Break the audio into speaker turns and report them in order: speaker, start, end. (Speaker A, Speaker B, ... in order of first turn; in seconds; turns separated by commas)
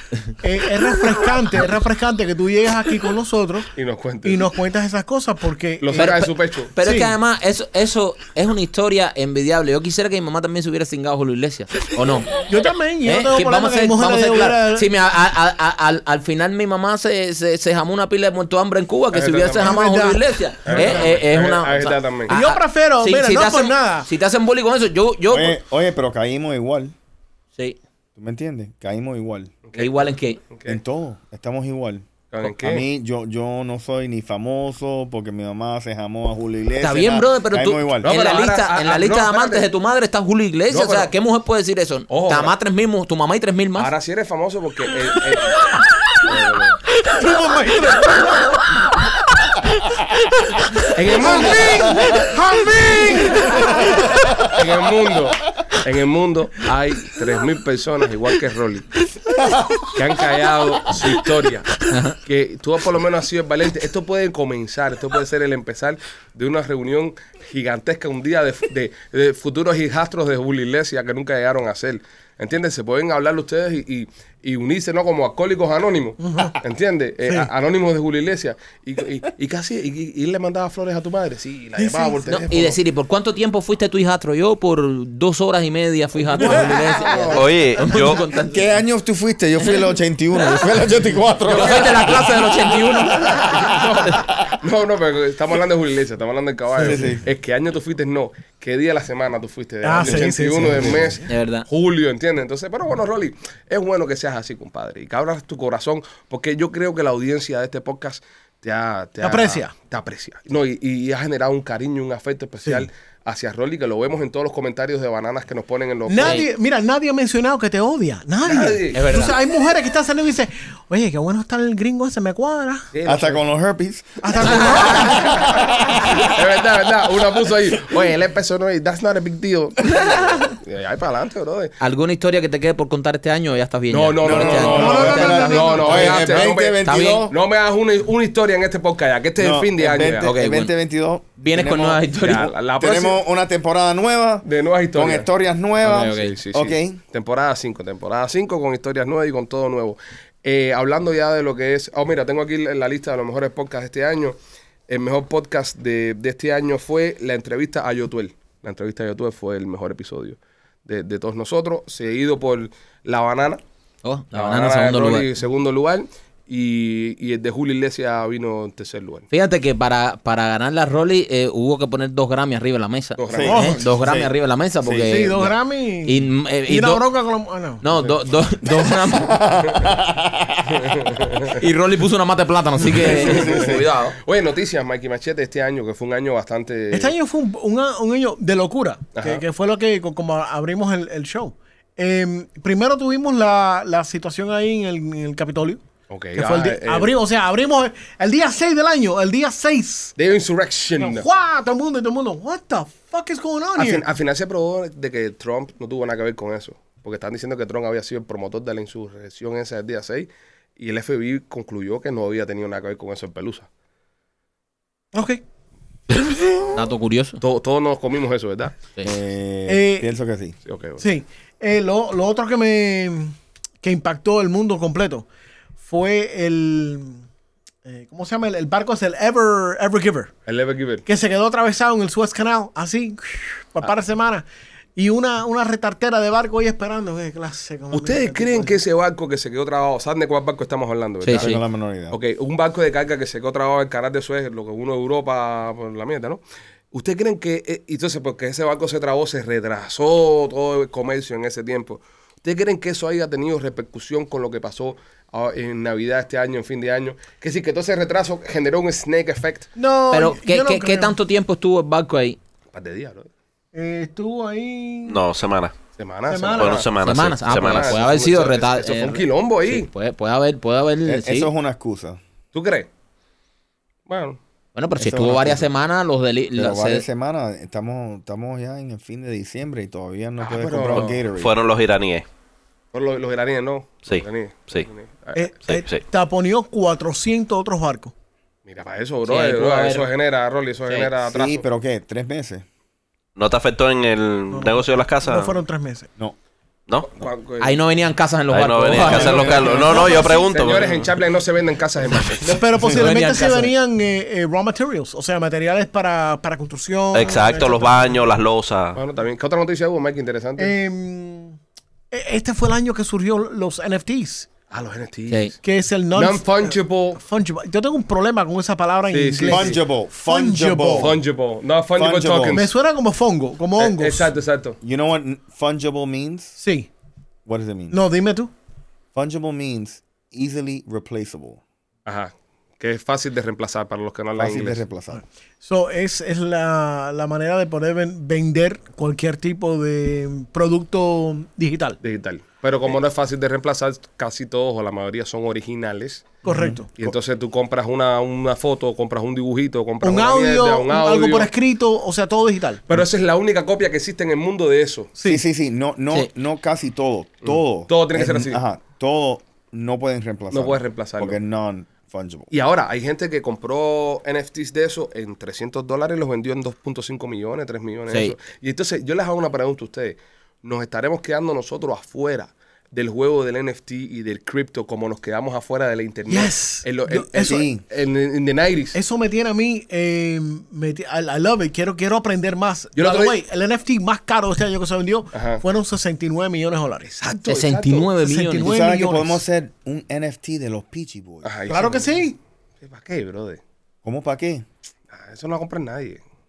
Speaker A: 0.4-3.7, Speaker B: 3.8-4.4, Speaker A: 4.2-6.2, Speaker B: 5.8-6.7, Speaker C: 5.9-12.4, Speaker A: 6.8-7.1, Speaker A: 12.4-14.9, Speaker C: 13.0-25.6, Speaker B: 19.1-19.8, Speaker A: 19.6-21.1, Speaker B: 20.6-22.4, Speaker A: 22.3-24.1, Speaker D: 25.3-26.9, Speaker D: 28.1-29.6, Speaker B: 29.7-30.8, Speaker C: 29.8-30.4, Speaker D: 30.6-38.1, Speaker B: 32.3-32.8, Speaker C: 36.8-43.9, Speaker B: 38.0-39.7, Speaker B: 40.7-41.1, Speaker B: 42.1-42.5, Speaker B: 43.8-45.5, Speaker B: 46.2-46.8, Speaker A: 47.2-48.3, Speaker B: 50.9-52.0, Speaker A: 51.1-53.9, Speaker D: 51.7-52.3, Speaker D: 53.4-54.4, Speaker B: 54.5-58.9, Speaker D: 59.4-59.8, Speaker B: 59.9-82.8, Speaker C: 61.9-62.1, Speaker A: 76.2-76.5, Speaker A: 81.8-82.2, Speaker C: 82.3-88.8, Speaker A: 86.4-87.3, Speaker D: 86.4-87.4, Speaker B: 87.0-87.4, Speaker E: 87.3-88.2, Speaker D: 87.9-92.3, Speaker B: 91.5-92.3, Speaker C: 91.5-93.5, Speaker D: 93.2-94.5, Speaker B: 93.2-116.4, Speaker D: 96.8-97.2, Speaker A: 99.8-101.2, Speaker D: 100.6-101.1, Speaker C: 101.3-101.6, Speaker A: 109.2-109.7, Speaker A: 116.1-122.9, Speaker C: 116.2-116.5, Speaker B: 118.4-119.0, Speaker C: 118.9-119.4, Speaker B: 122.9-123.4, Speaker D: 123.0-126.3, Speaker A: 124.2-125.5, Speaker C: 124.5-125.0, Speaker B: 124.6-131.7, Speaker C: 131.8-137.3, Speaker B: 133.9-140.3, Speaker D: 134.2-137.3, Speaker A: 134.6-136.0, Speaker D: 139.4-147.0, Speaker C: 140.2-140.7, Speaker C: 141.4-142.5, Speaker B: 142.2-143.2, Speaker B: 144.4-145.3, Speaker C: 145.8-146.3, Speaker B: 146.0-154.3, Speaker B: 154.9-163.6, Speaker C: 164.0-165.3, Speaker B: 164.3-169.3, Speaker C: 169.3-177.0, Speaker B: 173.2-173.8, Speaker D: 173.3-175.3, Speaker A: 173.5-173.8, Speaker A: 175.1-177.8, Speaker C: 177.8-179.4, Speaker D: 178.7-180.9, Speaker B: 180.7-181.6, Speaker C: 181.5-184.1, Speaker D: 183.0-183.9, Speaker B: 183.0-187.1, Speaker A: 186.9-195.8, Speaker B: 189.1-189.4, Speaker B: 196.1-197.1, Speaker A: 196.3-200.1, Speaker B: 200.2-201.3, Speaker A: 201.0-204.0, Speaker B: 203.8-213.7, Speaker A: 215.1-215.4, Speaker C: 216.7-217.4, Speaker B: 217.4-218.7, Speaker D: 219.0-220.6, Speaker A: 219.7-220.1, Speaker B: 220.7-221.0, Speaker A: 221.0-225.2, Speaker A: 225.8-227.2, Speaker A: 227.8-230.3, Speaker B: 230.4-231.1, Speaker A: 231.1-234.4, Speaker A: 234.9-238.8, Speaker B: 237.9-241.6, Speaker C: 241.2-241.6, Speaker D: 241.3-242.2, Speaker B: 242.1-259.7, Speaker A: 259.8-261.1, Speaker C: 260.1-262.4, Speaker B: 262.7-263.3, Speaker A: 263.7-265.2, Speaker E: 265.1-265.7, Speaker B: 265.9-266.9, Speaker A: 266.3-266.9, Speaker E: 266.5-268.0, Speaker C: 267.0-271.5, Speaker B: 267.5-269.9, Speaker D: 271.0-272.2, Speaker B: 272.5-272.9, Speaker B: 274.1-274.4, Speaker C: 274.7-277.0, Speaker D: 275.0-275.7, Speaker D: 276.5-281.5, Speaker B: 280.4-281.2, Speaker E: 281.4-282.2, Speaker B: 282.9-285.5, Speaker E: 284.1-284.9, Speaker A: 285.3-288.1, Speaker E: 285.6-286.0, Speaker B: 288.6-291.6, Speaker C: 289.2-290.1, Speaker D: 291.2-292.6, Speaker E: 293.4-295.6, Speaker A: 294.5-296.1, Speaker B: 297.1-297.8, Speaker C: 297.6-299.8, Speaker E: 298.5-301.1, Speaker D: 299.1-299.8, Speaker A: 299.1-300.6, Speaker B: 299.2-302.6, Speaker A: 302.4-308.2, Speaker D: 302.8-303.1, Speaker C: 302.8-303.7, Speaker E: 307.1-309.0, Speaker B: 308.9-310.7, Speaker A: 310.6-311.6, Speaker A: 312.1-314.5, Speaker B: 314.7-315.6, Speaker A: 315.6-321.1, Speaker B: 316.1-317.2, Speaker B: 319.1-319.8, Speaker D: 319.5-321.2, Speaker B: 320.9-322.7, Speaker D: 322.0-322.6, Speaker A: 322.5-324.3, Speaker B: 323.8-324.8, Speaker D: 324.8-326.6, Speaker A: 326.6-326.9, Speaker D: 327.4-328.0, Speaker A: 327.9-328.5, Speaker D: 329.1-331.6, Speaker B: 332.1-334.8, Speaker D: 334.4-335.2, Speaker A: 335.6-342.0, Speaker B: 342.0-346.4, Speaker A: 346.4-346.9, Speaker D: 346.4-347.1, Speaker B: 346.9-351.5, Speaker A: 350.0-352.8, Speaker B: 352.9-355.1, Speaker A: 355.1-355.4, Speaker D: 355.2-362.5, Speaker B: 357.4-358.6, Speaker B: 360.5-361.4, Speaker B: 362.5-379.0, Speaker A: 376.3-377.7, Speaker D: 377.4-377.8, Speaker A: 378.9-387.1, Speaker B: 382.9-383.4, Speaker B: 385.3-385.6, Speaker B: 387.0-388.1, Speaker C: 387.5-388.7, Speaker A: 388.2-389.4, Speaker D: 388.6-391.5, Speaker B: 391.4-392.3, Speaker A: 391.7-392.4, Speaker B: 392.8-393.6, Speaker D: 394.0-394.6, Speaker B: 395.1-396.2